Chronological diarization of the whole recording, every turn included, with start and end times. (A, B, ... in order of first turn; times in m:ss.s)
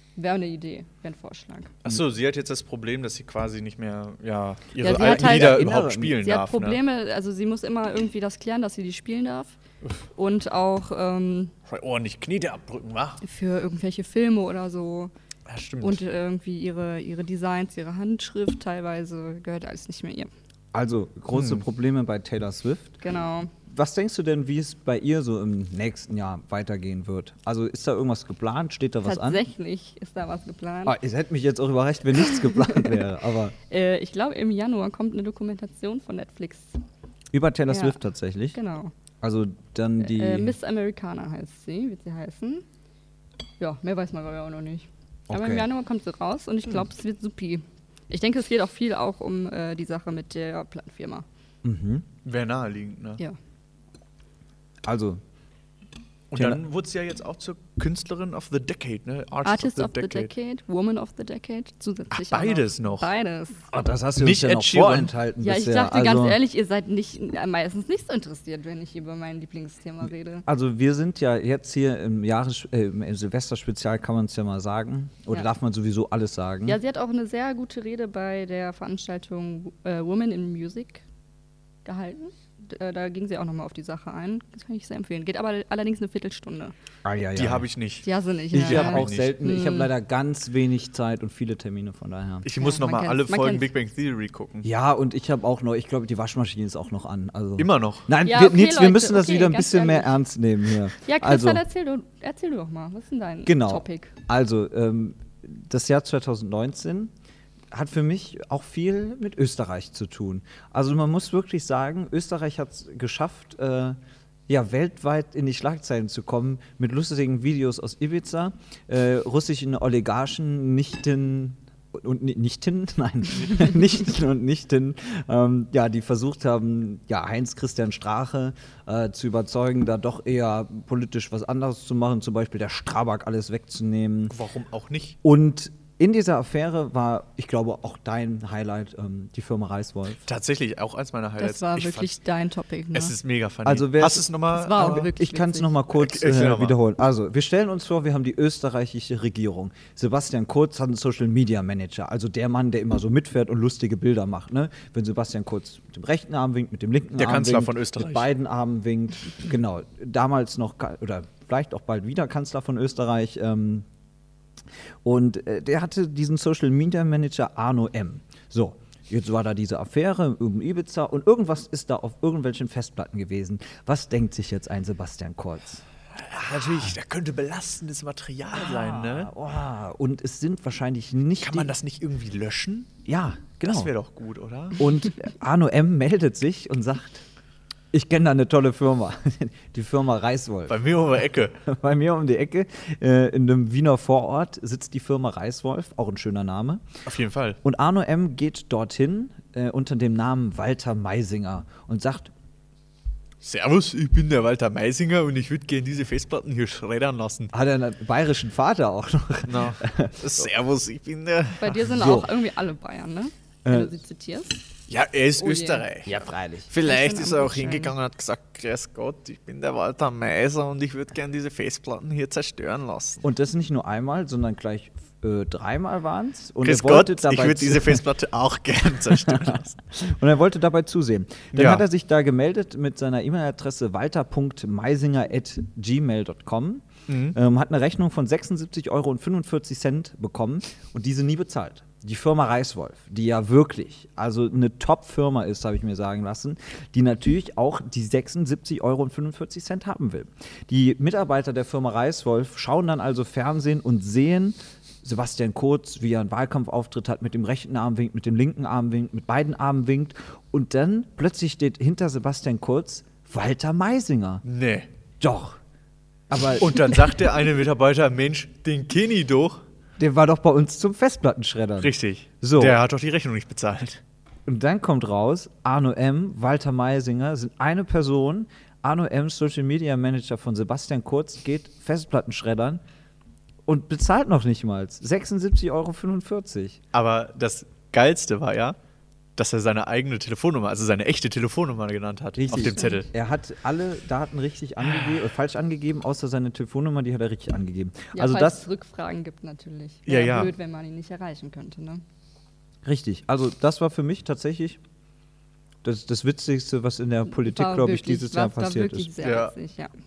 0:00.2-0:01.7 A
0:01.8-0:06.8 B
0:04.8-0:09.6 A
0:04.8-0:06.2 C
0:10.1-0:11.5 A
0:11.7-0:13.2 B
0:13.2-0:15.1 A
0:15.5-0:16.0 B
0:15.8-0:20.3 A
0:20.7-0:23.0 C
0:21.3-0:21.6 B
0:23.0-0:23.5 A
0:23.6-0:29.4 C
0:29.0-0:31.0 A
0:30.8-0:33.5 C
0:32.4-0:32.9 A
0:33.7-0:36.8 A
0:37.3-0:38.6 C
0:37.7-0:38.0 A
0:38.5-0:38.9 A
0:39.2-0:40.6 C
0:40.0-0:42.6 A
0:43.6-0:51.2 A
0:45.3-0:45.7 C
0:51.6-0:52.0 C
0:52.2-0:53.2 B
0:54.8-0:55.2 C
0:56.3-1:00.3 B
0:56.3-0:56.6 C
0:59.4-1:03.6 A
1:02.1-1:03.1 B
1:03.7-1:06.4 C
1:04.2-1:05.1 B
1:05.4-1:10.4 A
1:10.4-1:16.8 C
1:16.7-1:21.0 A
1:21.8-1:26.7 A
1:27.0-1:27.7 C
1:27.3-1:29.4 B
1:28.0-1:29.9 A
1:28.5-1:32.5 C
1:32.4-1:34.7 B
1:32.6-1:33.7 A
1:34.6-1:41.6 C
1:37.6-1:38.1 B
1:38.2-1:40.2 A
1:41.0-1:44.1 A
1:43.4-1:47.1 C
1:47.7-2:14.4 C
2:14.3-2:15.2 B
2:15.2-2:20.2 C
2:20.2-2:22.2 B
2:21.4-2:23.1 A
2:22.9-2:25.0 B
2:23.6-2:43.8 C
2:24.5-2:25.7 A
2:25.9-2:26.8 B
2:37.2-2:38.3 B
2:45.0-2:55.8 C
2:56.2-2:59.3 B
2:56.4-2:56.9 C
2:58.5-3:01.7 C
3:01.4-3:03.0 B
3:03.0-3:03.9 C
3:03.6-3:04.8 B
3:04.8-3:07.2 C
3:07.9-3:10.8 C
3:10.7-3:11.6 B
3:11.6-3:16.8 C
3:17.0-3:17.6 B
3:17.6-3:22.3 C
3:23.4-3:27.5 B
3:27.5-3:30.5 C
3:29.4-3:31.9 B
3:31.6-3:34.6 A
3:31.9-3:32.3 C
3:33.6-3:33.9 C
3:34.9-3:43.2 B
3:35.4-3:35.8 A
3:36.0-3:36.7 C
3:36.8-3:37.9 A
3:43.2-3:48.0 C
3:46.6-3:49.8 B
3:49.1-4:24.4 C
3:51.5-3:51.8 B
3:57.1-3:57.4 B
4:24.4-4:24.9 B
4:25.2-4:25.6 C
4:26.3-4:27.1 C
4:26.6-4:29.6 B
4:30.0-4:32.8 C
4:31.8-4:34.0 B
4:34.4-4:42.8 C
4:43.6-4:46.8 C
4:46.9-4:48.8 B
4:49.4-4:53.1 B
4:52.4-4:58.6 C
4:52.6-4:53.0 A
4:58.1-5:02.0 A
5:00.1-5:00.5 B
5:02.8-5:04.8 C
5:05.8-5:09.1 C
5:07.3-5:09.9 A
5:09.2-5:09.5 B